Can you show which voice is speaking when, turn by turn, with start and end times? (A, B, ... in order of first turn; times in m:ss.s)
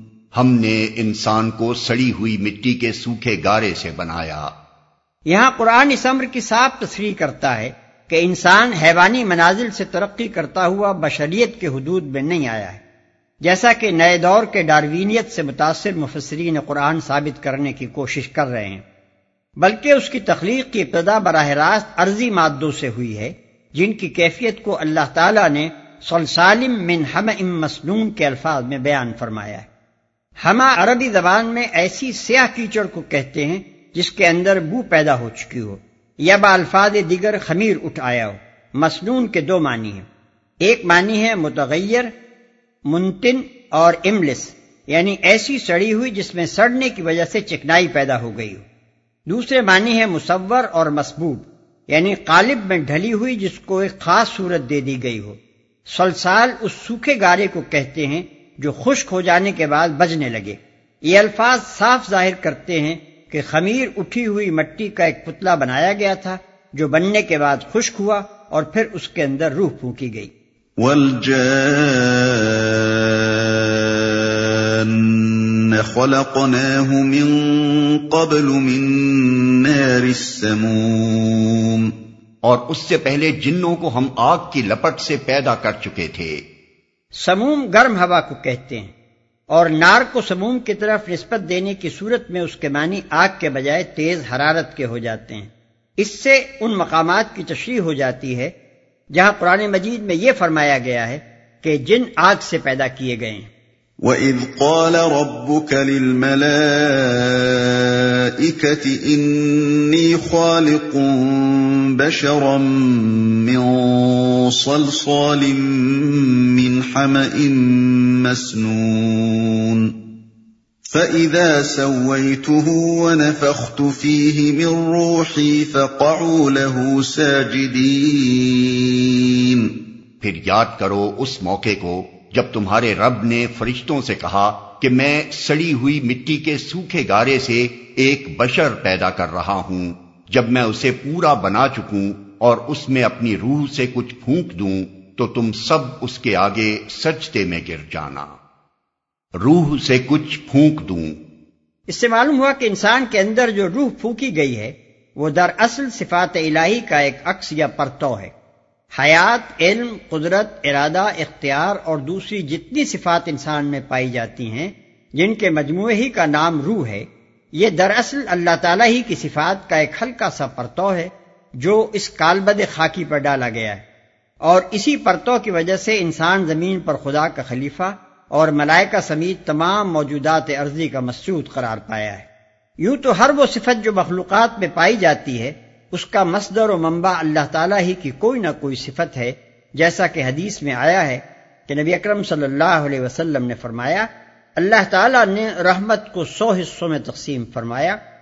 0:00.3-0:04.5 A
0:05.3-0:12.8 B
0:13.4-0:18.8 B
0:19.6-0:29.7 B
0:30.4-0:40.1 B
0:40.6-0:42.1 B
0:42.9-0:48.6 B
0:49.3-1:10.3 B
1:10.8-1:13.4 C
1:14.1-1:21.9 C
1:22.4-1:26.4 A
1:27.2-1:28.9 B
1:29.5-1:38.5 B
1:39.1-1:43.5 B
1:44.0-2:00.0 C
2:00.9-2:09.7 C
2:10.2-2:28.3 A
2:29.4-2:31.2 A
2:31.9-2:38.3 B
2:38.9-2:53.8 B
2:54.4-3:02.3 B
3:02.8-3:18.0 B